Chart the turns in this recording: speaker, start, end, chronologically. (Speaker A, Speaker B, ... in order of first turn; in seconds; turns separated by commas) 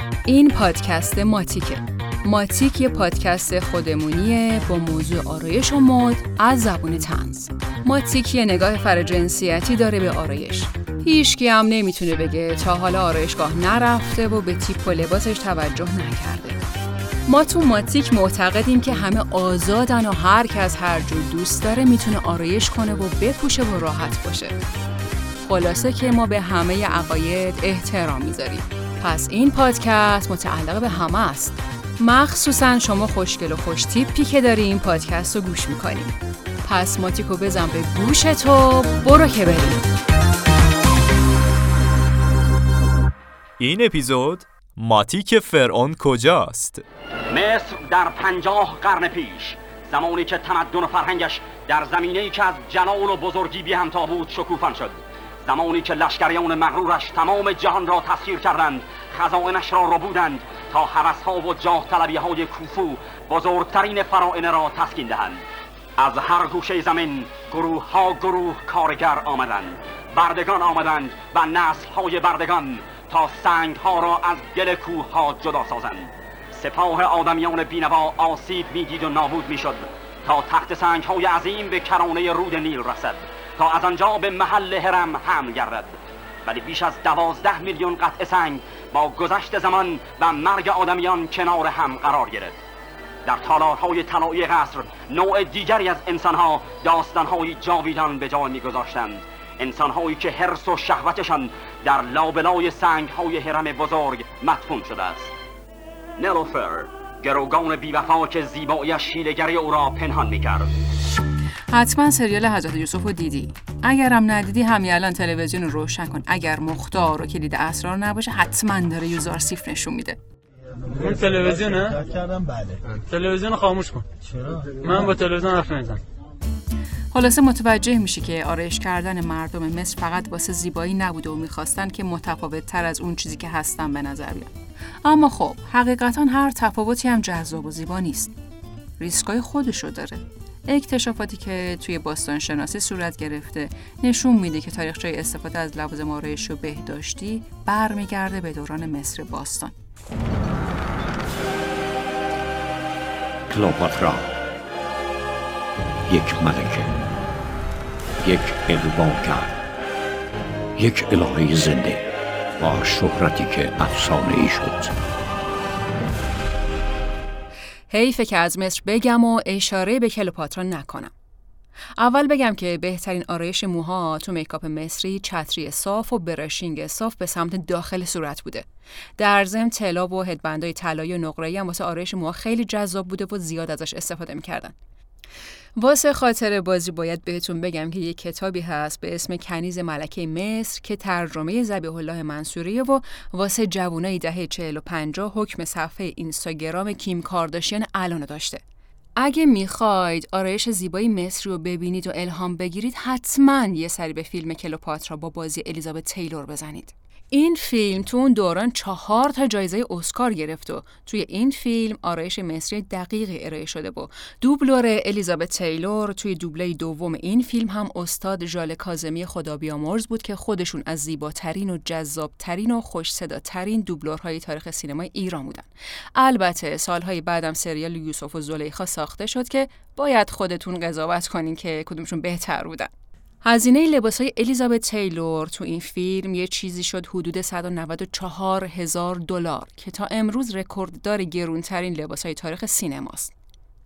Speaker A: 0.2-16.6, Speaker A: 17.2-24.6, Speaker A: 25.4-39.9, Speaker B: 43.6-46.8, Speaker C: 47.3-65.4, Speaker C: 66.0-92.5, Speaker C: 93.2-105.3, Speaker C: 106.2-110.7, Speaker A: 111.7-120.2, Speaker D: 120.9-122.2, Speaker B: 122.3-122.8, Speaker D: 122.9-126.0, Speaker A: 127.1-134.5, Speaker A: 135.0-138.3, Speaker A: 139.0-149.7, Speaker E: 153.5-154.3, Speaker E: 156.1-156.9, Speaker E: 158.2-159.5, Speaker E: 160.8-162.0, Speaker E: 162.6-164.9, Speaker A: 167.9-171.1, Speaker A: 172.0-178.7, Speaker A: 179.2-184.8, Speaker A: 185.8-198.6, Speaker A: 199.2-232.9, Speaker A: 233.4-243.3